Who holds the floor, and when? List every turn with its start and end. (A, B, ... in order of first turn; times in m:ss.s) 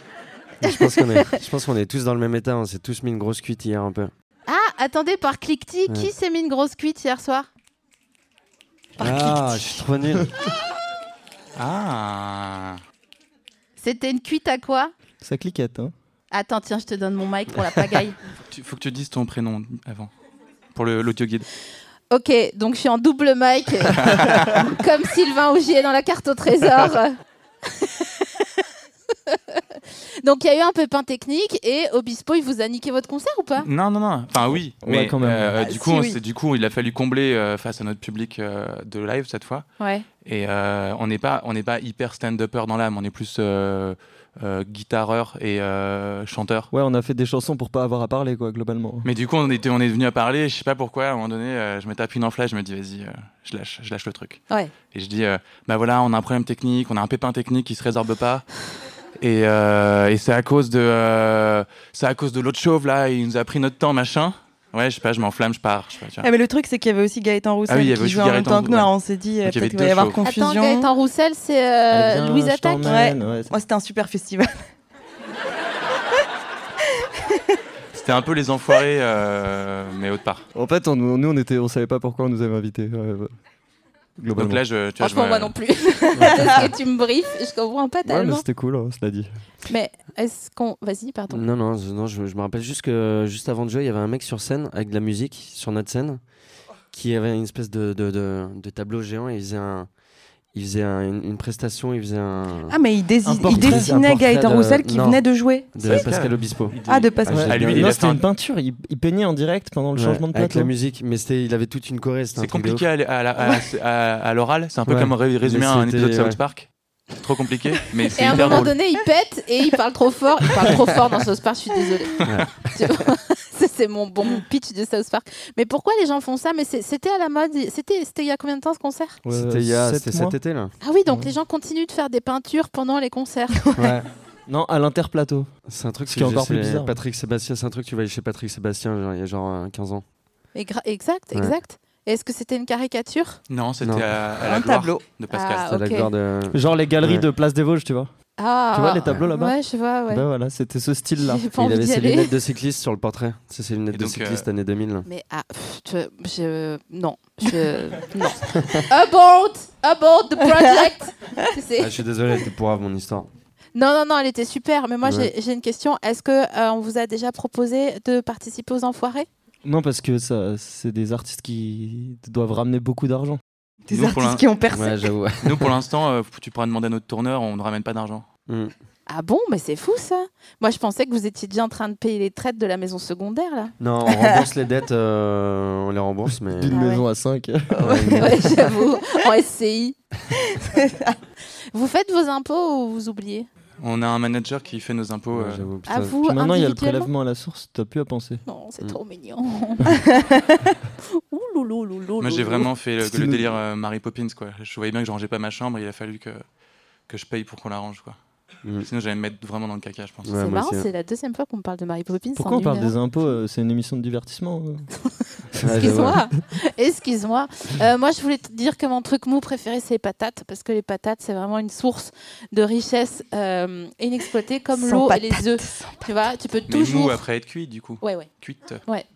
0:00.6-0:04.1 A
0:00.6-0:01.2 B
0:04.5-0:07.5 B
0:09.0-0:10.3 A
0:11.6-0:12.8 C
0:13.8-0:14.9 B
0:15.2-0:15.9 D
0:16.3-0:18.2 B
0:18.5-0:20.1 C
0:20.7-0:21.5 C
0:22.1-0:27.2 B
0:23.9-0:24.6 C
0:27.7-0:28.4 B
0:29.3-0:33.7 B
0:33.6-0:39.7 C
0:34.8-0:35.5 D
0:35.6-0:36.2 E
0:39.8-0:40.1 B
0:40.2-0:46.7 C
0:46.7-0:49.1 D
0:49.0-0:58.5 C
0:59.2-1:06.3 C
1:06.2-1:10.9 E
1:07.7-1:10.2 C
1:10.2-1:13.0 B
1:11.9-1:13.6 D
1:12.8-1:14.7 E
1:17.2-1:17.6 E
1:17.9-1:20.5 C
1:20.6-1:23.3 D
1:24.2-1:24.6 D
1:24.3-1:25.6 C
1:25.0-1:28.4 B
1:28.0-1:29.3 D
1:29.7-1:31.4 B
1:31.3-1:36.3 A
1:36.9-1:39.9 A
1:40.5-1:42.8 A
1:42.7-1:45.9 E
1:43.2-1:44.2 D
1:43.4-1:48.0 A
1:45.8-1:48.2 C
1:46.9-1:47.5 E
1:47.3-1:50.7 D
1:50.0-1:52.8 A
1:52.4-1:58.7 C
1:54.9-1:56.4 A
1:58.2-2:09.2 B
2:02.2-2:02.7 A
2:09.2-2:10.4 D
2:09.3-2:10.7 A
2:10.8-2:13.6 B
2:13.8-2:14.1 A
2:14.5-2:15.5 D
2:15.7-2:20.0 A
2:16.1-2:17.0 D
2:20.6-2:23.4 B
2:23.5-2:25.7 C
2:24.4-2:25.0 E
2:25.3-2:26.1 B
2:25.6-2:27.3 A
2:26.5-2:28.1 D
2:28.4-2:30.2 B
2:28.7-2:31.5 D
2:31.2-2:32.3 B
2:31.6-2:35.1 A
2:33.9-2:34.5 C
2:35.1-2:41.9 B
2:38.4-2:38.9 A
2:41.8-2:43.3 A
2:43.8-2:49.3 B
2:45.0-2:45.3 A
2:49.6-2:53.4 D
2:53.9-2:55.2 E
2:53.9-2:54.5 C
2:54.7-2:55.7 A
2:55.4-2:58.3 C
2:58.5-2:58.7 A
2:59.1-3:03.7 B
3:03.8-3:06.8 A
3:06.5-3:08.3 D
3:06.7-3:07.0 E
3:07.8-3:08.5 A
3:07.9-3:08.9 E
3:08.2-3:10.0 B
3:10.4-3:11.2 E
3:11.7-3:13.5 B
3:13.8-3:15.7 C
3:15.3-3:16.2 A
3:15.9-3:17.1 B
3:16.2-3:18.4 D
3:18.5-3:19.8 B
3:20.0-3:20.7 E
3:21.2-3:22.7 B
3:22.2-3:26.4 C
3:23.0-3:23.4 D
3:27.1-3:28.2 C
3:28.8-3:30.3 C
3:30.2-3:30.9 A
3:30.4-3:32.9 B
3:32.4-3:34.9 D
3:35.5-3:47.2 B
3:35.6-3:36.2 D
3:35.6-3:36.2 A
3:44.7-3:46.1 E
3:46.7-3:48.8 C
3:48.0-3:48.3 B